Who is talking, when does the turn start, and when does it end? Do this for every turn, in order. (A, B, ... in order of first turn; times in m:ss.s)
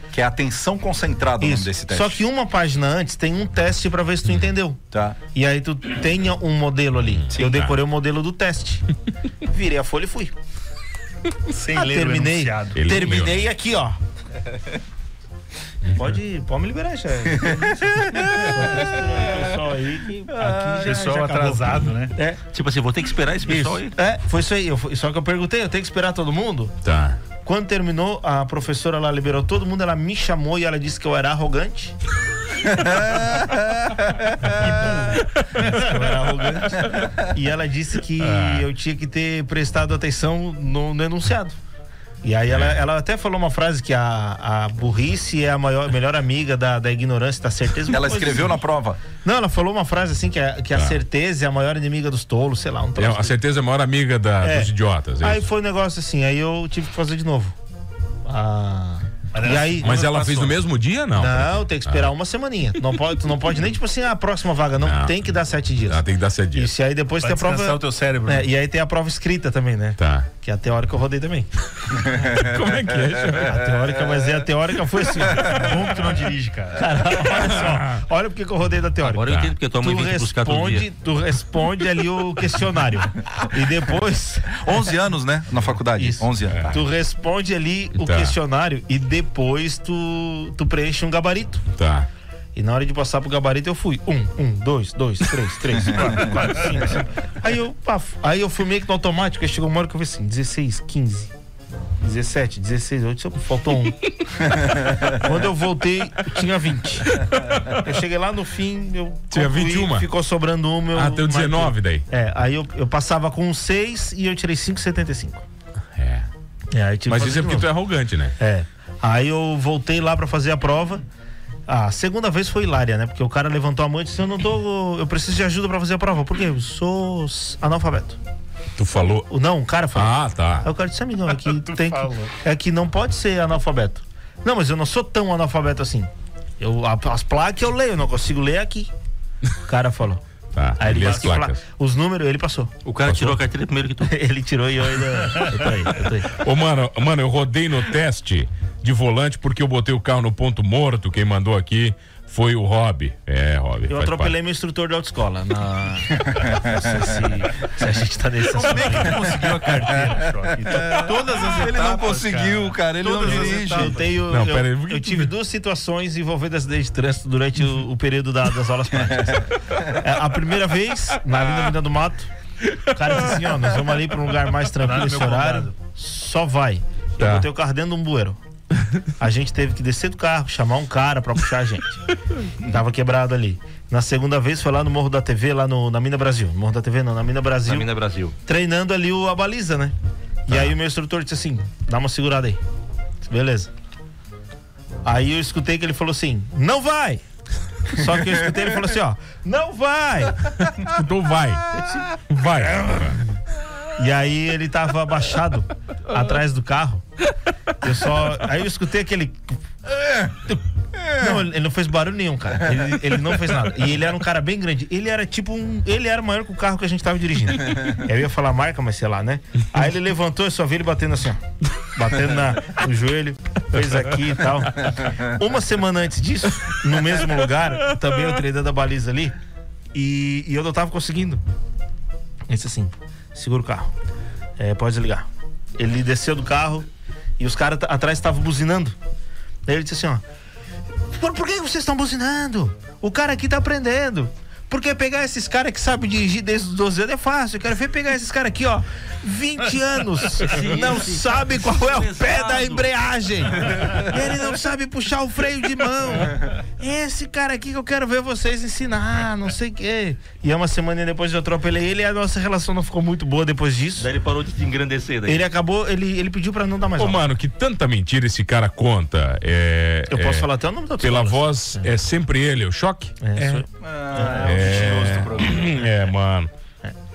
0:00.1-0:02.2 A
0:01.4-0:04.8 B
0:04.9-0:05.2 A
0:05.3-0:08.8 B
0:07.1-0:07.8 C
0:09.4-0:10.3 B
0:11.5-0:12.8 D
0:11.7-0:14.0 B
0:12.8-0:13.4 C
0:15.9-0:22.4 B
0:17.5-0:18.6 A
0:20.4-0:21.1 A
0:20.8-0:22.1 D
0:22.5-0:23.9 E
0:23.5-0:26.8 B
0:26.8-0:27.2 C
0:27.4-0:32.0 B
0:32.8-0:33.9 A
0:34.4-0:41.6 B
0:38.2-0:38.7 C
0:42.2-0:48.6 B
0:42.5-0:42.8 C
0:47.9-0:49.0 A
0:49.1-0:53.4 B
0:50.7-0:51.0 C
0:53.0-0:55.5 C
0:54.4-0:57.6 B
0:58.2-1:00.0 B
0:59.3-1:00.6 D
0:59.8-1:02.1 C
1:01.1-1:11.5 B
1:04.8-1:05.2 C
1:05.9-1:06.7 C
1:07.2-1:08.5 D
1:10.0-1:10.3 C
1:12.0-1:13.6 C
1:13.4-1:24.8 B
1:15.4-1:16.9 D
1:19.0-1:20.9 E
1:19.3-1:19.6 C
1:24.5-1:26.8 A
1:25.9-1:31.6 B
1:28.0-1:28.4 C
1:31.7-1:32.1 C
1:32.6-1:41.3 B
1:42.0-1:55.4 B
1:49.3-1:50.1 C
1:50.9-1:52.1 C
1:56.0-1:56.3 C
1:56.7-1:57.7 B
1:57.1-1:58.4 C
1:58.4-2:01.0 B
2:01.7-2:08.2 B
2:08.8-2:09.3 C
2:09.3-2:18.9 B
2:09.9-2:10.7 C
2:11.4-2:12.3 D
2:19.6-2:20.2 B
2:20.5-2:21.6 C
2:20.8-2:22.7 B
2:21.0-2:21.3 D
2:22.8-2:24.1 E
2:23.0-2:23.4 C
2:24.0-2:26.4 B
2:26.4-2:34.4 C
2:33.9-2:39.4 B
2:38.6-2:44.0 A
2:38.6-2:44.1 D
2:43.1-2:52.3 B
2:44.3-2:45.3 C
2:52.8-2:58.4 B
2:54.8-2:55.8 D
2:57.2-2:57.5 C
2:59.1-3:01.9 B
3:02.6-3:07.9 B
3:07.6-3:08.4 E
3:08.4-3:09.9 B
3:10.5-3:12.6 B
3:10.5-3:10.7 C
3:13.2-3:13.7 B
3:15.0-3:17.2 B
3:17.9-3:20.4 B
3:20.6-3:23.2 C
3:24.0-3:27.0 B
3:27.8-3:29.6 B
3:30.4-3:41.4 B
3:41.9-3:49.4 B
3:49.9-3:51.4 B
3:52.5-3:53.9 B
3:54.6-3:55.3 B
3:55.8-3:56.9 B
3:57.4-3:59.0 B
3:59.7-4:00.2 B
4:01.1-4:24.1 B
4:10.4-4:12.9 E
4:24.0-4:25.4 E
4:25.2-4:27.2 B
4:27.0-4:33.5 C
4:30.1-4:31.9 B
4:33.2-4:35.3 B
4:33.8-4:35.6 A
4:34.4-4:36.5 C